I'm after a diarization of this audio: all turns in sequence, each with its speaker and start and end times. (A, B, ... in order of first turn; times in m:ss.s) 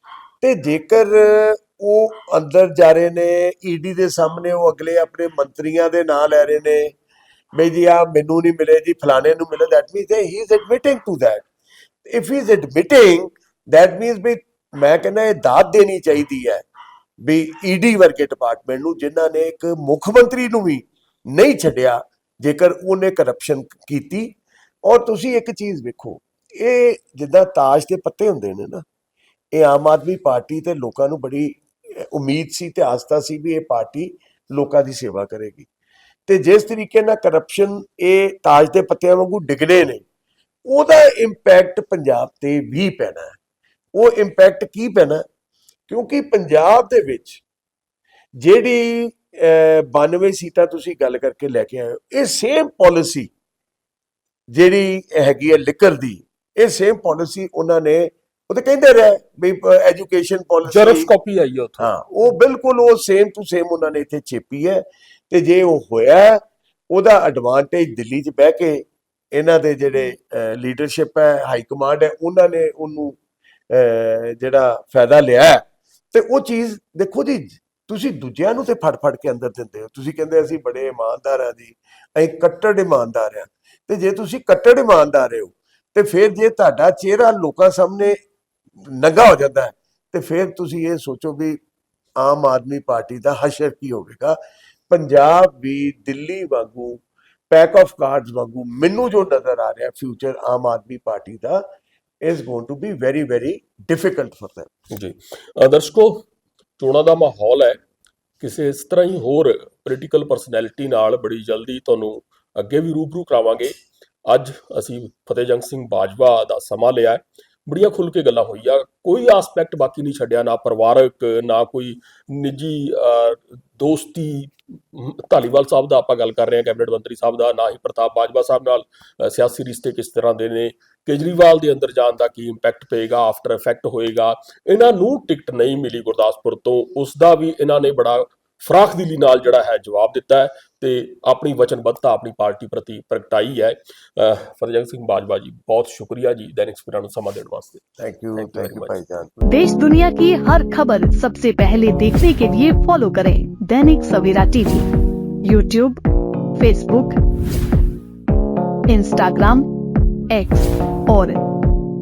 0:00.4-0:07.0 A
0:07.6-0:11.5 A
0:12.0-0:16.6 A
0:17.2-0:28.8 A
0:29.5-0:35.7 A
0:36.3-0:40.0 A
0:40.7-0:43.4 A
0:44.0-0:45.2 A
0:45.9-0:47.4 A
0:48.4-0:53.3 A
0:54.5-1:01.1 A
1:00.7-1:01.9 B
1:01.8-1:13.2 A
1:13.7-1:28.2 A
1:28.8-1:31.6 A
1:32.2-1:34.4 A
1:34.9-1:41.6 A
1:42.2-1:44.7 A
1:44.9-1:46.3 B
1:46.8-1:47.8 B
1:48.4-2:27.8 B
2:28.0-2:29.4 A
2:28.4-2:29.0 B
2:29.5-2:34.9 C
2:35.4-2:36.0 C
2:36.6-2:37.2 C
2:38.9-2:39.7 C
2:40.3-2:41.4 C